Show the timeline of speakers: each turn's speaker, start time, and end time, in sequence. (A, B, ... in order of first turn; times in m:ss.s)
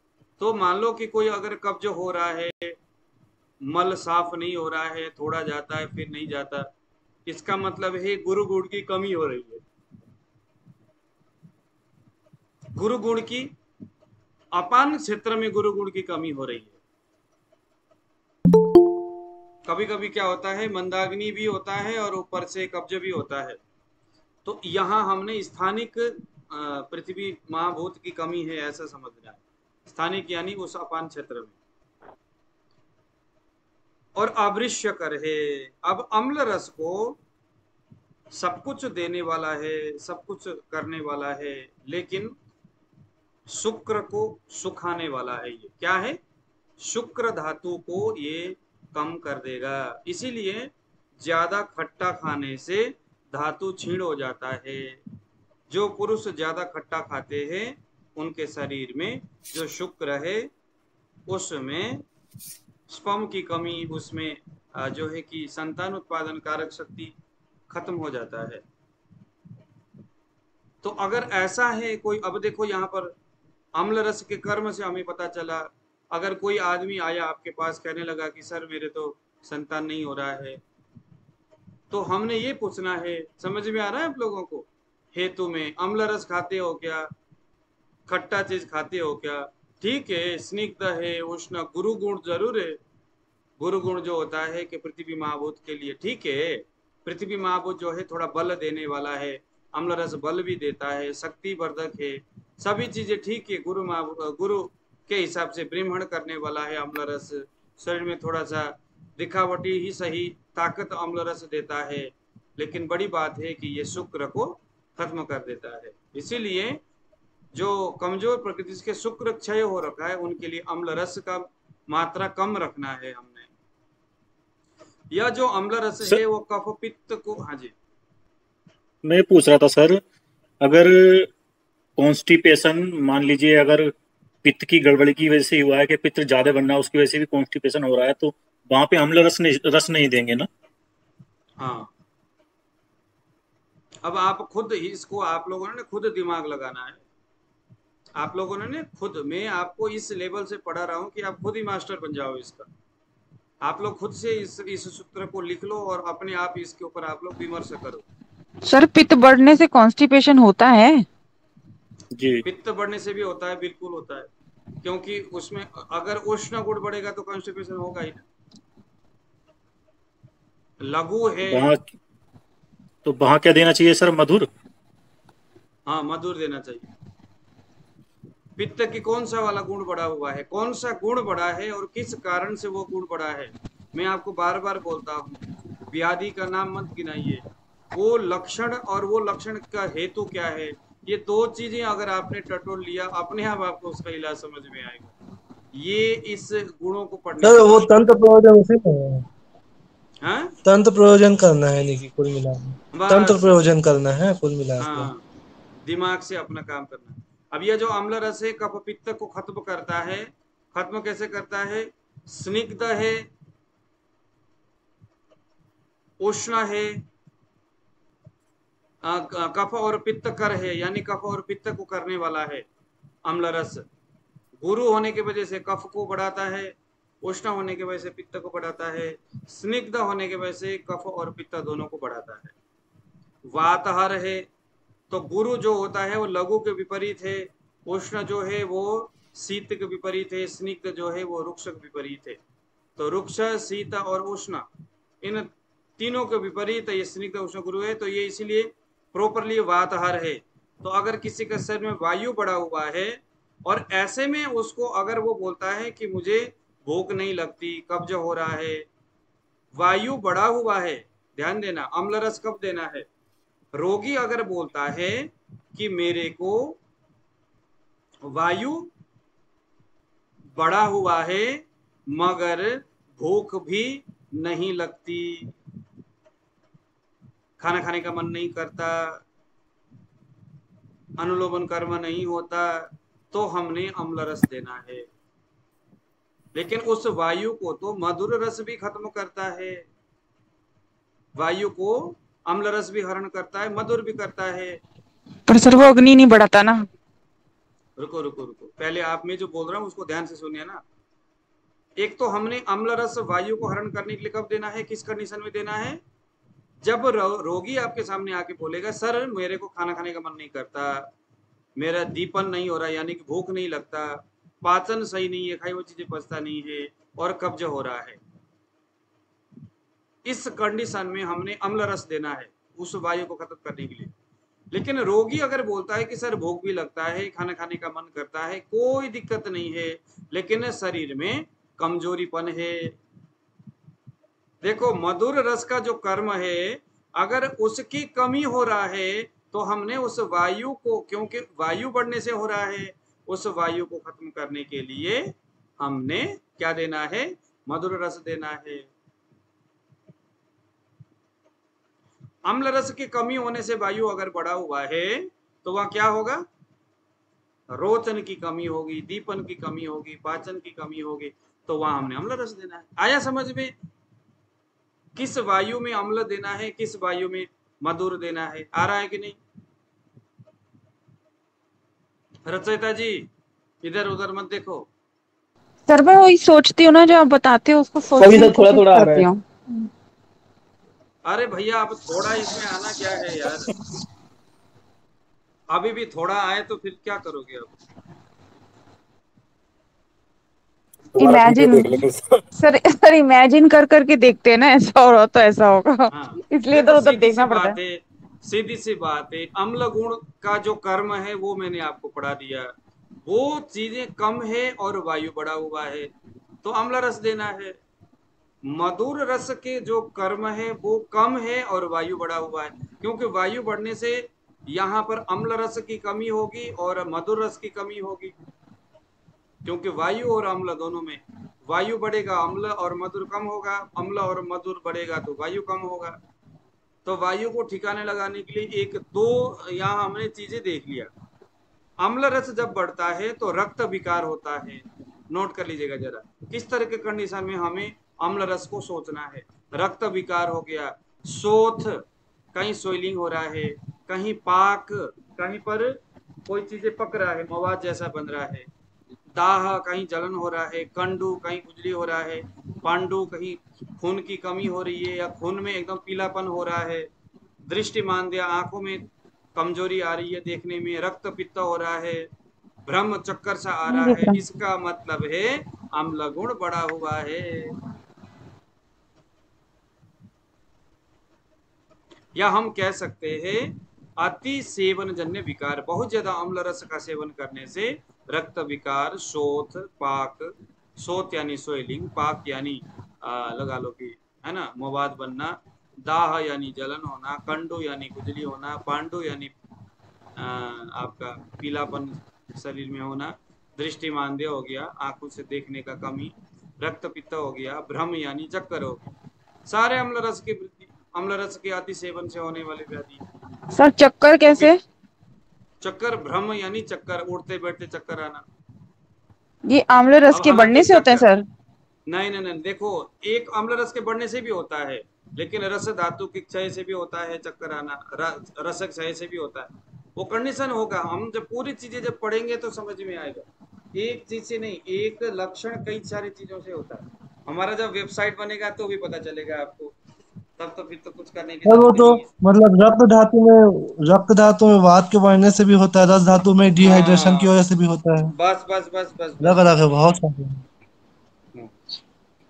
0:00.4-0:02.8 A
0:03.6-0:06.7 A
0:07.3-0:09.6 A
0:12.8-0:13.5 A
0:14.5-0:16.8 A
0:19.7-0:23.6 A
0:24.4-0:31.6 A
0:34.2-0:37.2 A
0:38.3-0:42.3 A
0:43.5-0:46.2 A
0:46.8-0:55.0 A
0:55.7-1:00.5 A
1:01.3-1:02.0 A
1:02.9-1:07.1 A
1:07.7-1:08.6 A
1:10.8-1:13.1 A
1:13.8-1:20.6 A
1:21.9-1:27.1 A
1:28.1-1:32.8 A
1:33.6-1:56.8 A
1:57.6-2:03.5 A
2:05.1-2:07.7 A
2:09.0-2:10.0 B
2:10.6-2:11.3 B
2:12.0-2:13.9 B
2:14.4-2:20.5 B
2:21.6-2:21.9 A
2:24.0-2:27.0 A
2:28.2-2:32.7 A
2:33.6-2:38.0 A
2:38.6-2:41.0 C
2:42.2-2:42.4 B
2:42.4-2:44.3 A
2:44.8-2:48.2 A
2:50.8-2:51.7 A
2:51.5-2:51.8 B
2:53.0-2:54.5 B
2:55.9-2:56.9 A
2:58.6-3:15.1 A
3:15.8-3:17.9 A
3:17.4-3:19.3 D
3:20.2-3:20.6 A
3:20.6-3:25.1 D
3:22.9-3:23.5 A
3:24.8-3:25.2 A
3:25.9-3:33.2 A
3:36.2-3:36.9 A
3:39.0-3:42.7 A
3:43.3-3:43.9 A
3:44.6-3:52.5 A
3:53.5-3:54.5 A
3:55.1-4:02.4 A
4:03.0-4:04.7 A
4:05.2-4:18.8 A
4:19.8-4:23.1 A
4:23.8-4:26.8 A
4:28.3-4:28.9 A
4:30.6-4:35.5 A
4:37.6-4:39.2 A
4:41.2-4:45.0 A
4:46.6-4:49.8 A
4:51.4-4:54.8 A
4:55.5-4:56.9 C
4:58.0-5:00.8 A
5:02.0-5:06.0 A
5:06.8-5:11.1 A
5:11.8-5:18.2 A
5:20.3-5:24.1 A
5:24.7-5:32.9 A
5:34.6-5:48.9 A
5:52.5-5:56.4 A
5:57.7-6:03.7 A
6:05.2-6:09.4 A
6:12.5-6:13.3 A
6:13.8-6:14.9 A
6:15.9-6:19.9 C
6:21.3-6:23.7 A
6:25.7-6:27.7 A
6:31.2-6:32.4 B
6:31.2-6:32.1 C
6:32.6-6:37.8 C
6:36.1-6:42.7 A
6:43.3-6:46.1 A
6:46.6-6:47.8 A
6:48.7-6:58.3 A
6:59.6-7:06.2 A
7:07.0-7:11.1 A
7:12.0-7:22.0 A
7:22.5-7:28.7 A
7:29.4-7:37.1 A
7:37.7-7:39.0 A
7:39.6-7:42.3 A
7:42.9-7:47.7 A
7:43.9-7:44.3 D
7:52.4-8:09.5 A
8:10.4-8:19.0 A
8:19.7-8:23.2 A
8:23.7-8:24.8 C
8:24.4-8:24.7 A
8:25.8-8:28.4 A
8:29.7-8:31.5 C
8:30.3-8:31.3 A
8:32.1-8:43.4 A
8:44.0-8:49.9 A
8:50.6-8:52.3 A
8:51.6-8:58.3 D
8:56.8-8:57.5 A
8:58.3-8:59.7 A
8:59.4-9:00.6 D